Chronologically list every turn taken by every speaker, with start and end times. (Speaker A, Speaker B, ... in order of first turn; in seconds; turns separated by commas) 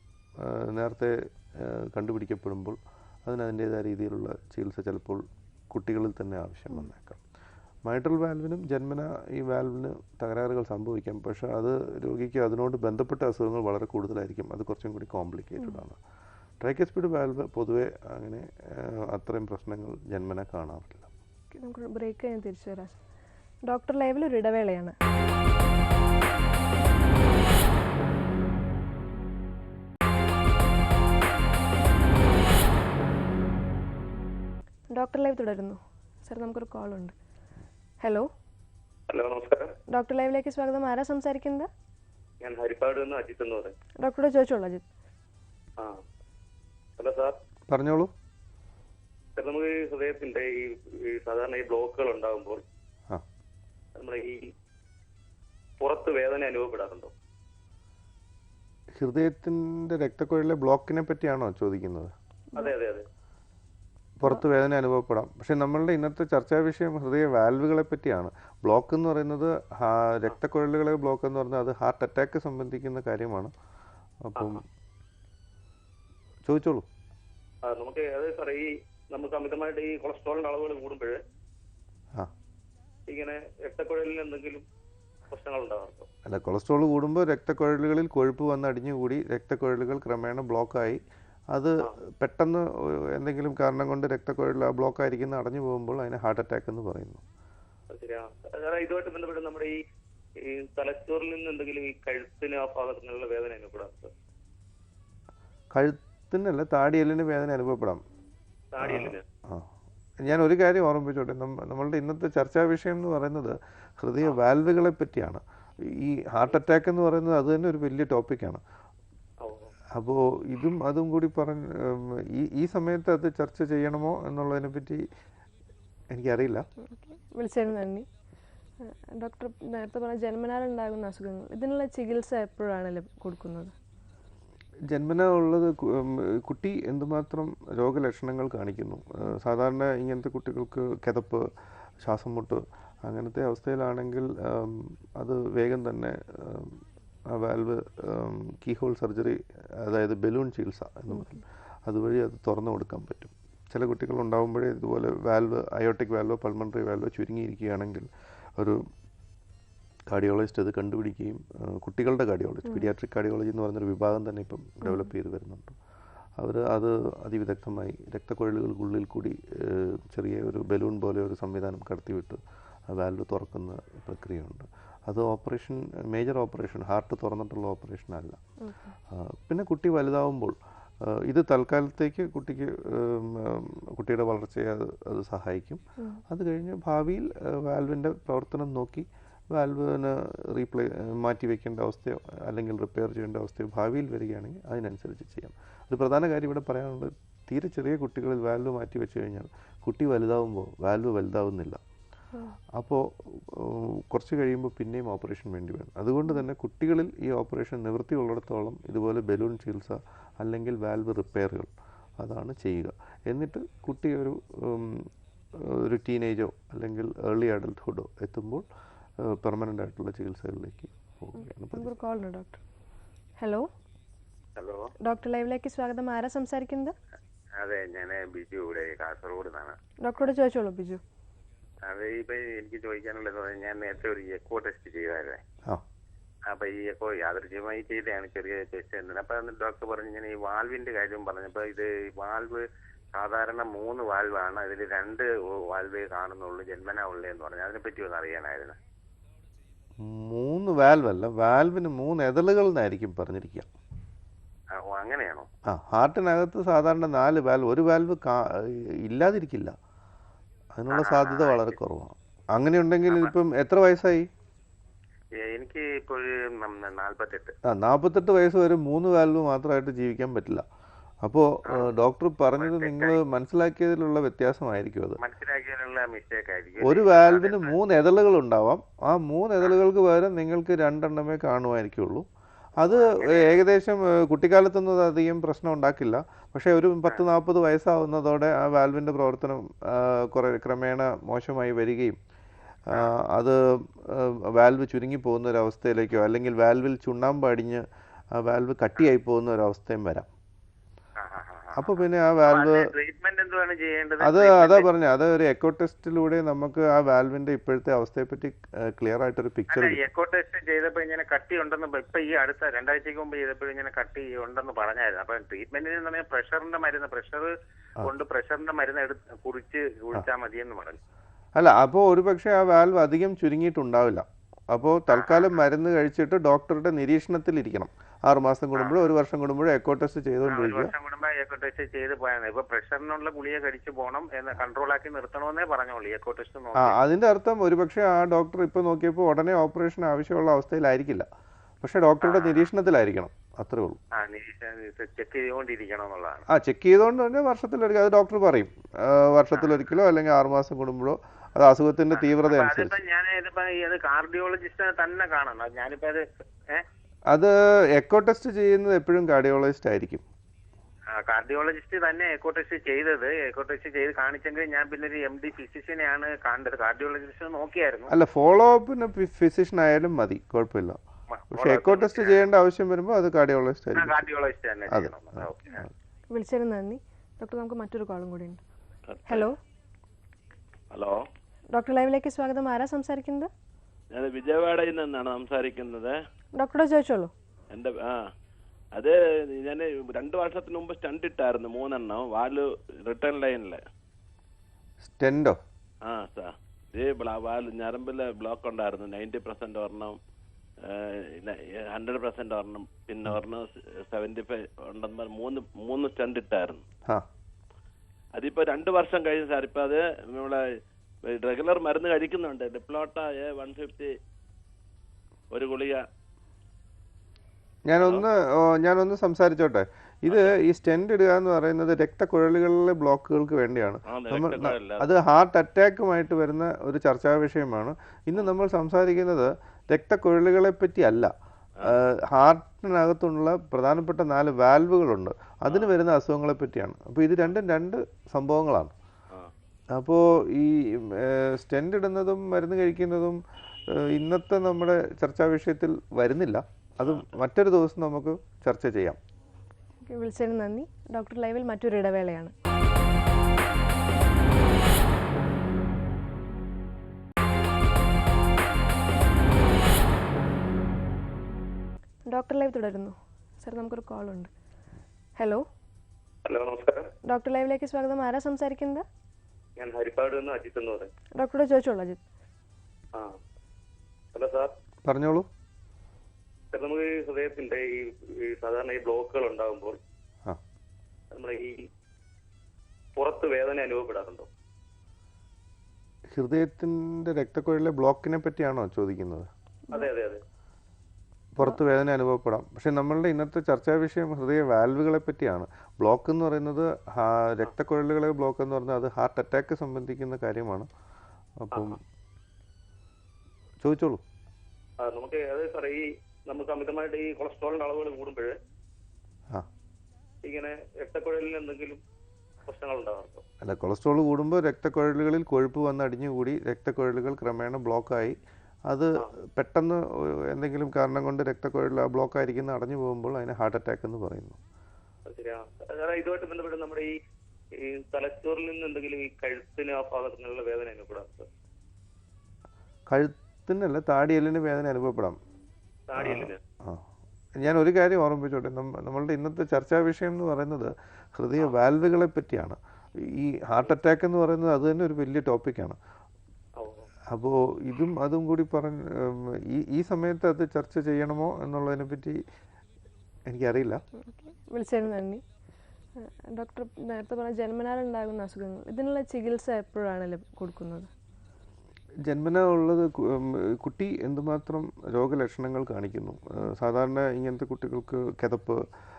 Speaker A: 0.4-7.2, Speaker A: 7.8-16.0, Speaker A: 16.6-21.1, Speaker B: 21.5-23.0, Speaker B: 23.7-24.9, Speaker B: 34.9-37.1, Speaker B: 38.0-38.3, Speaker C: 39.1-39.7, Speaker B: 39.9-41.7, Speaker C: 42.4-43.7, Speaker B: 44.0-44.8, Speaker C: 45.8-46.0, Speaker C: 47.0-47.4, Speaker A: 47.7-48.1, Speaker C: 49.3-52.6, Speaker C: 53.9-54.5, Speaker C: 55.8-57.1, Speaker A: 59.0-62.1, Speaker C: 62.5-63.0, Speaker A: 64.2-73.5, Speaker A: 74.2-74.6, Speaker C: 74.3-74.6, Speaker A: 76.4-76.8, Speaker C: 77.6-81.2, Speaker C: 83.1-84.6, Speaker C: 85.3-86.1, Speaker A: 86.2-91.0, Speaker A: 91.5-97.2, Speaker C: 97.9-99.8, Speaker C: 100.4-104.1, Speaker A: 105.7-108.0, Speaker C: 108.7-109.2, Speaker A: 108.8-109.7, Speaker A: 110.2-118.6, Speaker C: 119.4-119.7, Speaker A: 119.9-125.0, Speaker A: 126.1-126.6, Speaker B: 126.8-128.1, Speaker B: 128.8-133.7, Speaker A: 134.9-141.5, Speaker A: 142.0-146.8, Speaker A: 147.3-158.8, Speaker A: 160.1-165.8, Speaker A: 166.4-178.4, Speaker B: 178.6-178.9, Speaker A: 179.1-201.8, Speaker A: 202.8-218.6, Speaker A: 219.2-221.9, Speaker B: 221.4-222.6, Speaker B: 223.4-223.7, Speaker D: 224.6-224.9, Speaker B: 225.0-226.9, Speaker D: 227.6-229.8, Speaker B: 230.0-231.0, Speaker D: 231.8-235.4, Speaker D: 236.5-248.8, Speaker A: 250.0-253.7, Speaker D: 254.7-255.5, Speaker A: 255.7-259.8, Speaker A: 260.7-264.3, Speaker D: 260.9-261.7, Speaker D: 265.4-267.5, Speaker A: 267.6-270.6, Speaker A: 271.2-275.2, Speaker D: 271.6-271.9, Speaker D: 272.6-273.2, Speaker D: 275.2-277.7, Speaker A: 276.8-282.2, Speaker A: 282.8-292.2, Speaker D: 282.8-283.5, Speaker A: 292.9-300.3, Speaker D: 301.2-304.9, Speaker A: 301.7-302.9, Speaker A: 304.2-310.0, Speaker D: 309.7-321.0, Speaker A: 321.6-330.9, Speaker D: 325.1-325.5, Speaker D: 328.8-329.1, Speaker D: 330.5-336.9, Speaker A: 336.8-341.3, Speaker A: 341.8-344.0, Speaker D: 342.2-342.6, Speaker D: 344.1-346.4, Speaker A: 346.5-353.0, Speaker D: 352.1-356.8, Speaker A: 357.3-360.2, Speaker D: 361.1-368.1, Speaker A: 368.1-371.0, Speaker D: 371.3-372.4, Speaker A: 371.5-374.3, Speaker D: 373.9-375.8, Speaker A: 374.9-375.9, Speaker B: 376.3-378.6, Speaker E: 379.1-379.5, Speaker B: 379.3-379.6, Speaker E: 380.9-381.2, Speaker B: 381.7-383.5, Speaker E: 384.1-386.2, Speaker B: 386.6-387.3, Speaker E: 387.7-388.3, Speaker E: 388.9-393.8, Speaker A: 395.0-395.6, Speaker E: 396.0-400.2, Speaker E: 400.8-406.8, Speaker E: 408.3-410.7, Speaker E: 411.2-414.1, Speaker E: 415.5-416.0, Speaker A: 417.9-438.9, Speaker E: 424.1-425.1, Speaker A: 439.9-449.2, Speaker B: 450.1-452.5, Speaker B: 462.3-464.5, Speaker B: 465.4-465.6, Speaker C: 466.4-467.1, Speaker B: 467.2-469.0, Speaker C: 469.8-471.1, Speaker B: 471.4-472.2, Speaker C: 473.1-473.4, Speaker C: 474.3-474.7, Speaker A: 475.0-475.5, Speaker C: 476.7-480.0, Speaker C: 481.3-481.9, Speaker C: 483.1-484.5, Speaker A: 486.3-489.5, Speaker C: 489.9-490.4, Speaker A: 491.5-500.9, Speaker A: 501.6-502.0, Speaker C: 501.7-502.0, Speaker A: 503.8-504.2, Speaker C: 505.0-508.6, Speaker C: 510.4-512.0, Speaker C: 512.6-513.4, Speaker A: 513.6-518.4, Speaker A: 518.9-524.6, Speaker C: 525.2-527.1, Speaker C: 527.7-531.5, Speaker A: 533.1-535.4, Speaker C: 536.1-536.6, Speaker A: 536.2-546.0, Speaker C: 546.8-547.1, Speaker A: 547.3-552.4, Speaker A: 553.5-554.0, Speaker B: 554.2-555.4, Speaker B: 556.2-561.1, Speaker A: 562.2-568.8